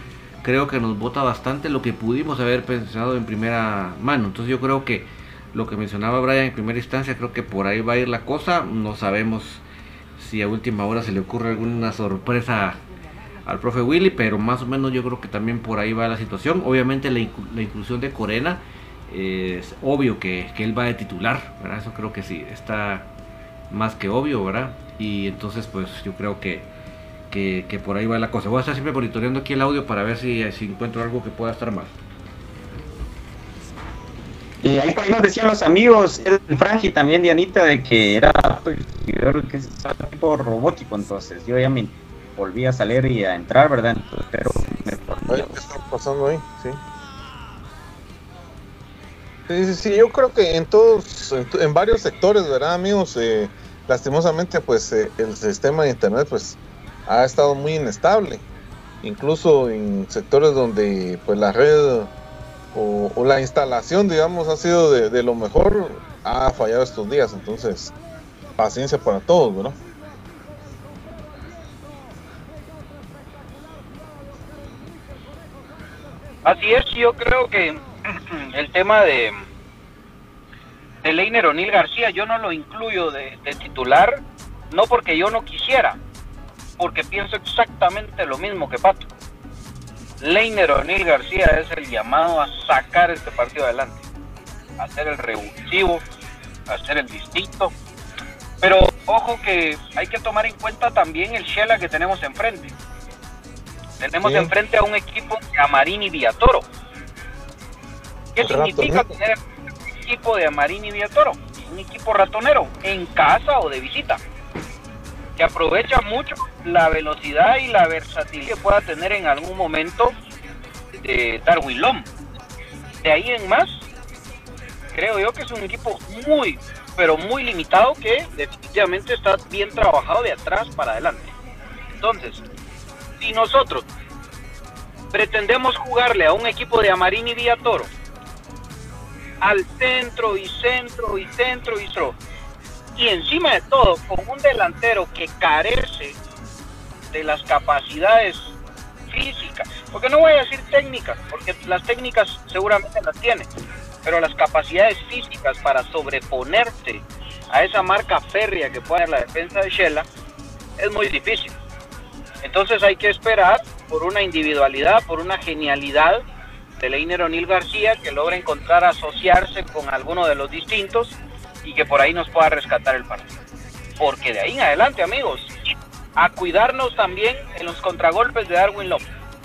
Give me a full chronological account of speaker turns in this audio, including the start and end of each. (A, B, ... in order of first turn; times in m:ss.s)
0:00.4-0:09.6 A
0:10.2-0:12.8 A
0:13.4-0:23.0 A
0:23.7-0:26.7 A
0:27.3-0:31.9 A
0:34.6-0:45.7 B
0:45.3-0:46.8 C
0:49.5-0:58.4 C
0:59.0-1:02.1 C
1:02.7-1:07.9 C
1:08.6-1:09.8 C
1:16.4-1:19.4 D
1:21.0-1:24.2 D
1:24.7-1:26.0 D
1:26.8-1:29.1 D
1:30.2-1:34.0 D
1:34.8-1:36.0 D
1:36.7-1:37.7 D
1:38.6-1:42.7 D
1:44.0-1:46.6 D
1:44.2-1:44.5 C
1:48.4-1:54.2 D
1:48.4-1:49.1 C
1:55.4-2:00.2 D
2:00.9-2:02.1 D
2:03.0-2:03.8 D
2:04.9-2:11.3 D
2:12.0-2:12.4 D
2:13.2-2:13.8 D
2:15.1-2:17.9 D
2:19.4-2:22.2 D
2:23.0-2:26.2 D
2:27.1-2:28.6 D
2:29.1-2:33.5 D
2:34.0-2:40.0 D
2:40.8-2:41.5 D
2:42.4-2:46.2 D
2:46.8-2:53.3 D
2:54.0-2:55.6 D
2:56.2-2:59.0 D